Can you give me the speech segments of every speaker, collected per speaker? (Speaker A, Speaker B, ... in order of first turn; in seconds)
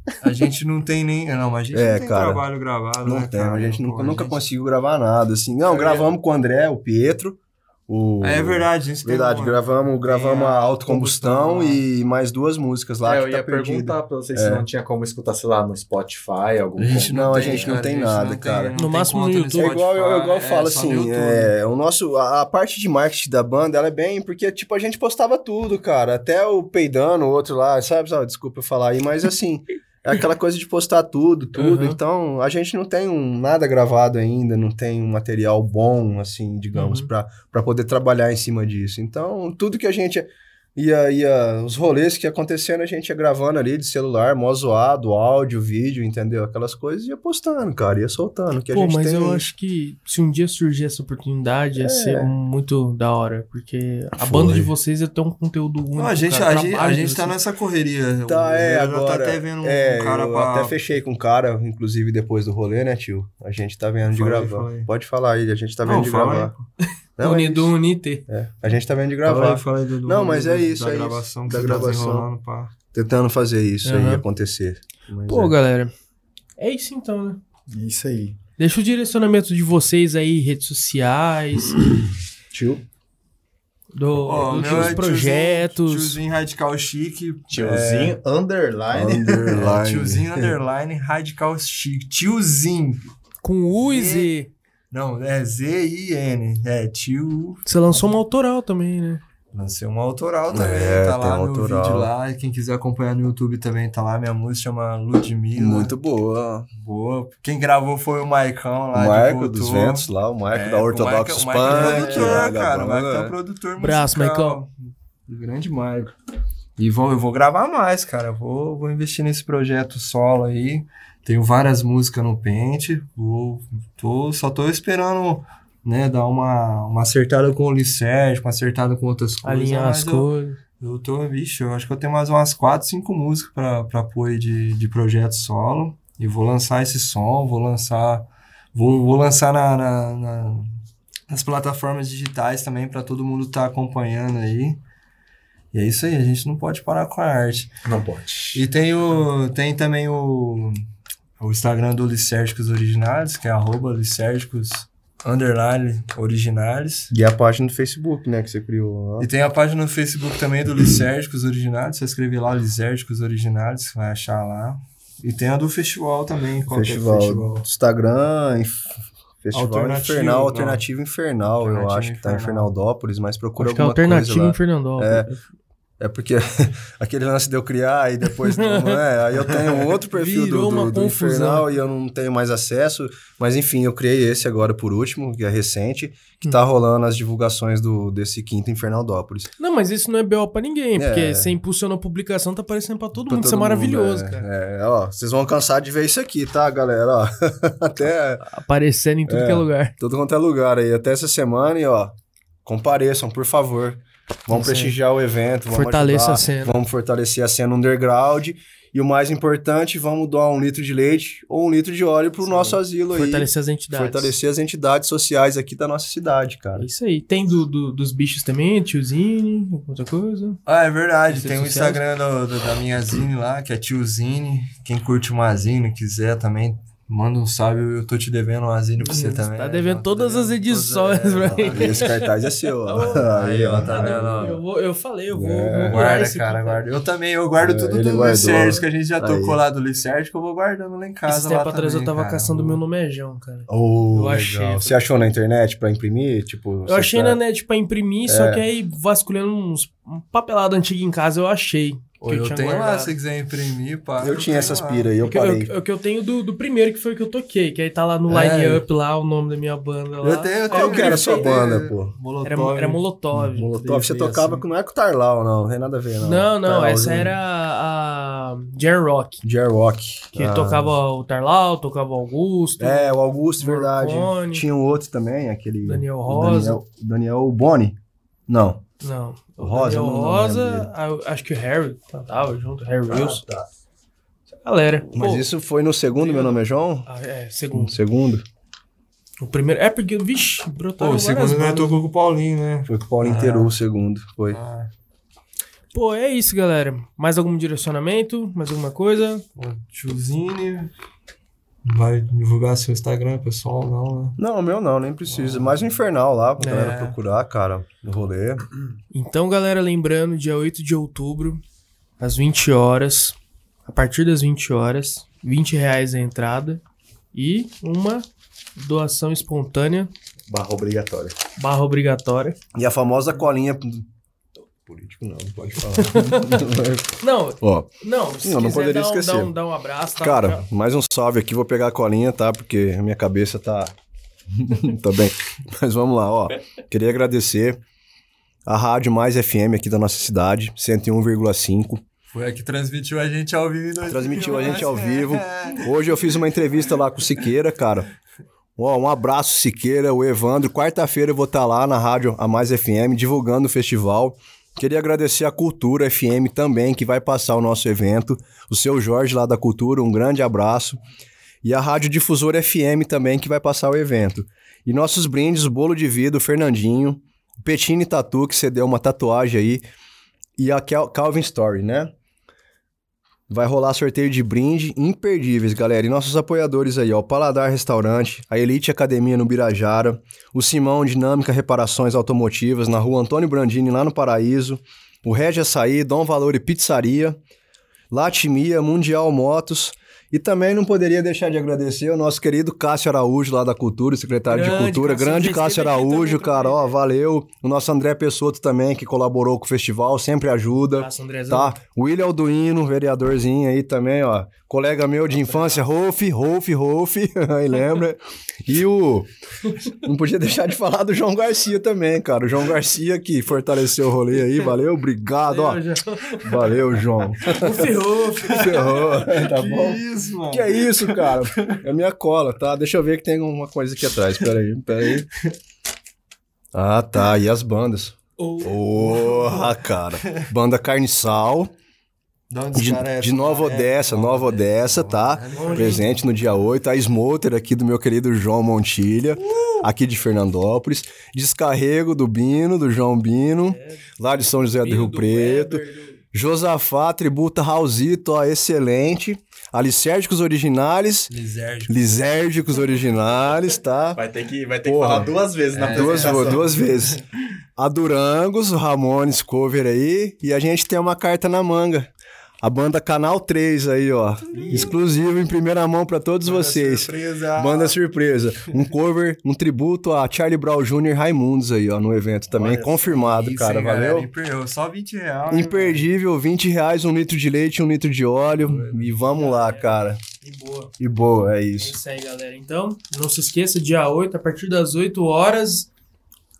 Speaker A: 0.2-4.4, 5.7-6.0, 8.2-11.8, 16.8-21.5, 55.9-60.8, 64.1-64.9, 65.8-66.7, 69.2-72.7, 84.2-88.2, 89.5-93.1, 93.8-94.3, 94.9-97.6, 99.5-105.9, 106.8-114.8, 115.3-116.1, 116.8-140.7, 141.3-144.8, 145.7-147.7, 148.5-150.8, 151.4-157.1, 159.2-167.6, 169.5-170.8, 171.6-172.7, 220.7-232.2, 233.0-234.6, 235.9-242.8, 252.2-255.1, 258.3-258.8, 260.2-263.0, 263.9-264.6, 291.0-293.7, 294.5-294.9, 299.6-300.9, 301.8-304.4, 305.3-305.8, 306.8-307.1, 342.3-345.9, 418.4-421.8, 432.5-436.1, 451.3-452.2, 455.7-457.2, 464.5-464.9, 466.4-467.9, 473.3-476.1, 478.6-479.1
Speaker B: 1.7-2.5, 3.0-14.6, 17.1-18.7, 19.5-49.5, 51.7-52.3, 54.2-54.7, 58.3-66.5, 67.2-67.8, 68.3-72.3, 72.9-75.5, 82.5-82.8, 84.5-85.0, 88.9-90.5, 100.5-102.1, 105.5-106.7, 108.9-113.3, 157.1-159.3, 166.7-175.3, 176.0-189.5, 190.9-191.6, 193.2-198.4, 199.2-216.9, 231.4-234.6, 235.3-236.1, 237.6-239.6, 243.7-247.4, 248.2-248.7, 254.2-255.7, 260.7-262.1, 263.3-267.4, 269.4-271.0, 272.8-278.0, 278.5-278.8, 279.6-280.9, 283.1-283.7, 285.1-287.1, 287.7-288.4, 292.9-294.6, 304.4-308.6, 322.7-324.1, 324.8-327.9, 328.4-329.5, 330.2-333.9, 334.5-337.8, 338.6-342.0, 344.1-348.1, 348.8-361.0, 361.6-369.8, 370.6-372.1, 373.5-387.4, 388.1-409.3, 410.0-415.8, 416.4-417.9, 418.5-425.3, 426.7-431.7, 432.7-451.3, 451.9-454.2, 454.8-455.3, 455.9-457.2, 457.8-462.1, 462.6-474.3, 475.5-480.2, 481.0-482.0
Speaker C: 13.0-17.8, 77.7-78.4, 87.5-89.6, 147.8-148.6, 320.5-321.4, 454.1-456.8, 464.5-464.9, 472.5-473.7
Speaker D: 18.7-19.7, 31.5-32.0, 36.7-37.1, 48.7-57.4, 67.2-68.2, 73.8-74.2, 75.3-75.9, 76.6-77.4, 78.6-82.1, 83.9-86.2, 93.4-94.5, 97.7-99.2, 111.6-112.5, 113.8-114.6, 129.4-130.6, 173.6-175.3, 178.4-179.0, 180.1-181.7, 189.6-194.4, 198.4-199.9, 204.5-204.9, 205.7-206.8, 212.5-214.3, 216.8-220.6, 221.3-222.0, 229.0-232.3, 232.8-236.8, 241.3-245.0, 246.8-253.1, 255.2-261.6, 262.4-264.1, 266.2-269.4, 270.3-274.6, 275.8-276.8, 279.0-283.4, 284.6-285.5, 286.1-288.0, 289.4-292.0, 295.9-299.4, 306.6-307.1, 309.1-311.6, 312.2-316.8, 317.3-318.2, 318.8-320.1, 321.6-322.6, 326.0-326.6, 327.2-330.6, 394.5-396.9, 400.9-401.7, 405.4-405.8, 415.4-419.1, 428.4-429.7, 435.5-436.2, 443.6-444.1, 444.8-446.2, 479.1-480.9, 481.8-485.9